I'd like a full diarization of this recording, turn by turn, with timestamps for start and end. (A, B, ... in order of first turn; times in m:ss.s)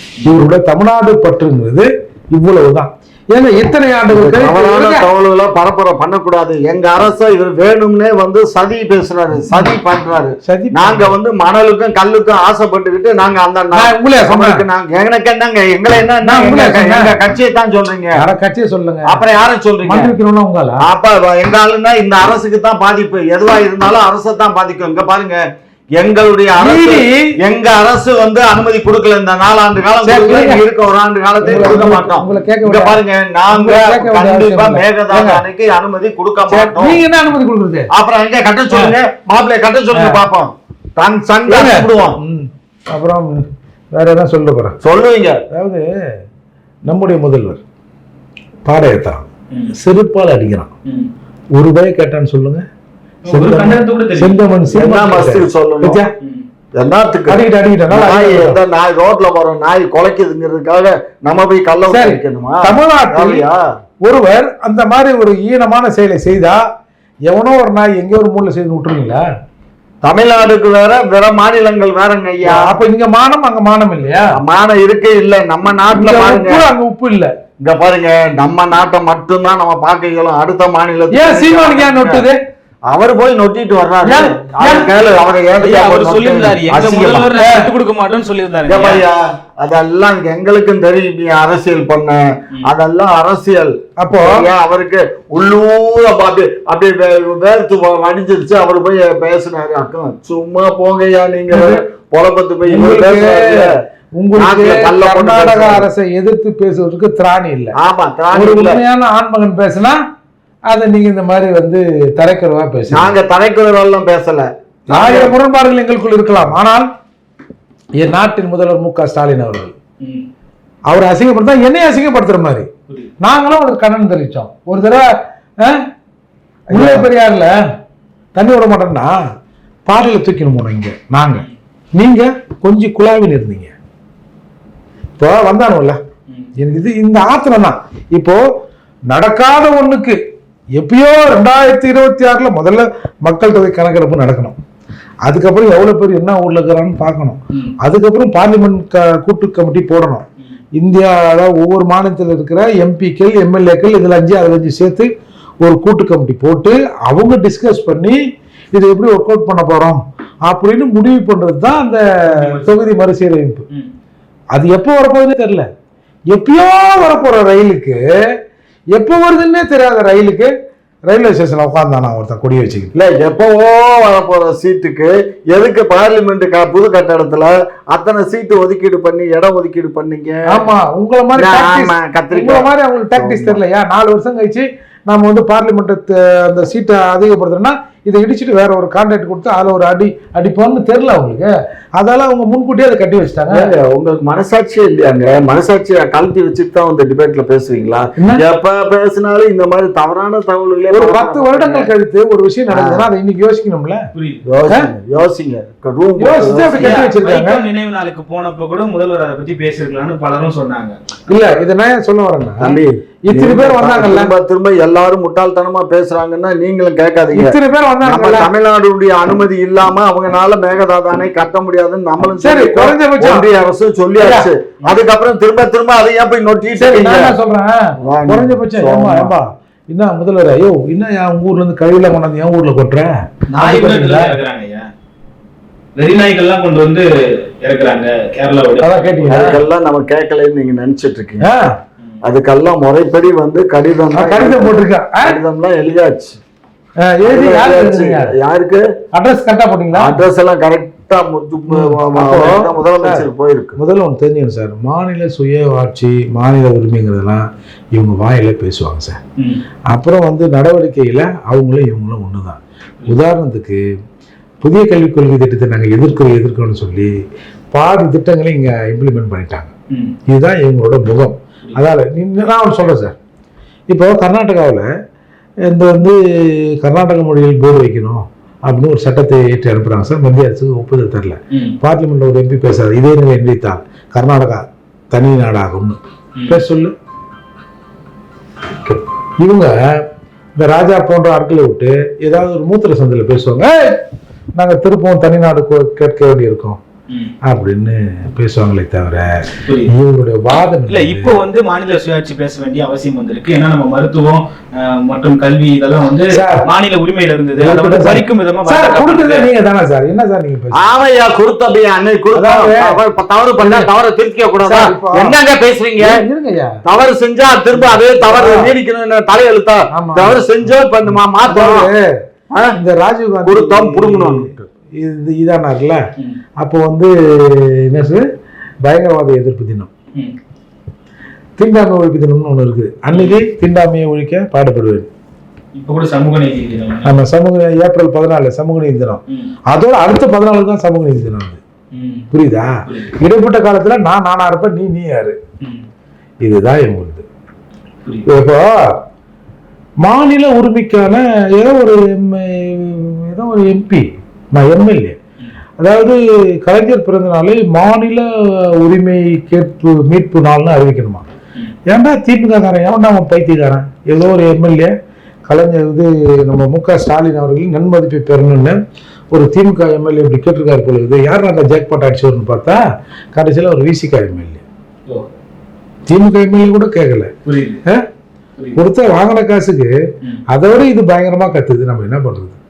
0:00.2-0:05.1 A
0:04.1-0:18.2 B
0:10.4-0:11.1 A
0:13.7-0:14.6 A
0:16.2-0:17.1 A
0:18.2-0:19.2 A
0:19.0-0:20.1 B
0:19.8-0:20.8 A
0:20.8-0:25.4 B
0:26.0-0:37.0 B
0:26.6-0:27.3 A
0:30.0-0:30.6 A
0:31.4-0:35.4 A
0:36.5-0:37.9 A
0:37.9-0:42.2 B
0:39.9-0:40.2 A
0:41.5-0:44.8 A
0:44.8-0:45.4 B
0:45.5-0:45.9 A
0:46.9-0:47.6 A
0:48.6-0:50.7 A
0:51.5-0:52.6 A
0:53.2-0:54.4 C
0:53.3-0:56.1 A
0:54.7-0:56.0 B
0:56.2-0:56.4 C
0:56.8-1:03.6 B
0:57.3-0:58.6 A
1:01.9-1:03.4 A
1:04.0-1:06.6 A
1:07.3-1:09.2 A
1:10.0-1:12.8 B
1:12.4-1:14.4 A
1:14.3-1:16.6 B
1:15.9-1:17.3 A
1:17.6-1:22.2 B
1:21.1-1:22.4 A
1:22.9-1:27.3 B
1:24.0-1:24.9 A
1:25.6-1:29.0 C
1:27.4-1:27.7 A
1:28.7-1:43.8 B
1:34.0-1:34.5 A
1:41.5-1:41.8 A
1:42.7-1:47.8 A
1:44.4-1:45.9 B
1:47.7-1:48.8 B
1:48.3-1:50.0 A
1:50.7-1:53.2 A
1:52.9-1:55.3 B
1:54.9-1:56.9 A
1:58.0-1:59.7 A
2:00.0-2:00.3 C
2:00.9-2:02.7 A
2:02.9-2:03.1 C
2:03.2-2:05.9 A
2:06.7-2:07.6 A
2:06.7-2:07.1 B
2:08.3-2:09.2 A
2:09.8-2:13.7 A
2:15.2-2:16.0 A
2:16.6-2:18.5 A
2:19.1-2:20.2 A
2:20.8-2:24.6 A
2:25.2-2:35.1 A
2:35.6-2:38.2 A
2:38.7-2:43.6 A
2:42.2-2:42.8 C
2:44.5-2:45.7 A
2:46.3-2:48.4 A
2:48.9-2:50.5 A
2:51.1-2:52.9 A
2:52.9-3:00.7 B
3:00.5-3:13.7 A
3:01.4-3:03.6 B
3:13.5-3:21.9 B
3:20.9-3:24.1 A
3:22.7-3:23.1 B
3:24.1-3:24.4 C
3:24.5-3:27.0 B
3:26.2-3:27.6 A
3:26.8-3:31.0 C
3:31.3-3:34.3 A
3:32.6-3:47.4 B
3:37.3-3:38.5 A
3:42.4-3:43.5 A
3:44.2-3:44.5 A
3:46.8-3:54.4 A
3:48.0-3:49.3 B
3:53.5-3:54.9 C
3:56.0-3:59.6 C
3:58.8-3:59.6 A
3:59.3-4:01.5 B
4:01.4-4:01.8 A
4:02.2-4:06.4 B
4:04.1-4:05.4 A
4:07.0-4:08.3 A
4:07.2-4:08.9 B
4:09.1-4:10.2 A
4:10.0-4:13.8 B
4:11.7-4:19.2 A
4:19.4-4:19.6 C
4:19.9-4:23.8 A
4:24.6-4:27.1 A
4:27.7-4:29.7 A
4:29.9-4:30.2 C
4:30.3-4:33.2 A
4:33.9-4:34.9 A
4:35.6-4:46.9 A
4:41.5-4:41.8 C
4:48.7-4:56.8 A
4:57.4-5:01.4 A
4:59.6-4:59.9 C
5:00.9-5:09.5 C
5:06.3-5:06.7 A
5:07.6-5:10.9 A
5:10.7-5:16.2 B
5:12.3-5:13.0 A
5:13.6-5:13.9 A
5:14.6-5:15.4 A
5:16.0-5:16.8 A
5:16.8-5:21.9 B
5:17.8-5:18.8 A
5:19.9-5:20.4 A
5:21.4-5:22.2 A
5:22.5-5:22.8 B
5:22.7-5:26.1 A
5:23.4-5:24.7 B
5:26.6-5:28.2 A
5:28.8-5:29.9 A
5:31.6-5:35.1 A
5:33.1-5:33.4 C
5:35.7-5:37.2 C
5:37.0-5:41.6 A
5:39.3-5:39.5 C
5:41.9-5:42.3 C
5:42.3-5:45.4 A
5:42.8-5:43.2 C
5:45.6-5:45.8 C
5:46.4-5:47.2 A
5:48.2-5:49.0 A
5:50.0-5:55.2 A
5:55.8-6:01.2 A
6:01.9-6:04.9 A
6:05.5-6:08.8 A
6:09.3-6:12.8 A
6:13.3-6:14.6 A
6:16.1-6:17.3 A
6:17.4-6:17.8 C
6:18.8-6:20.0 A
6:20.5-6:22.6 A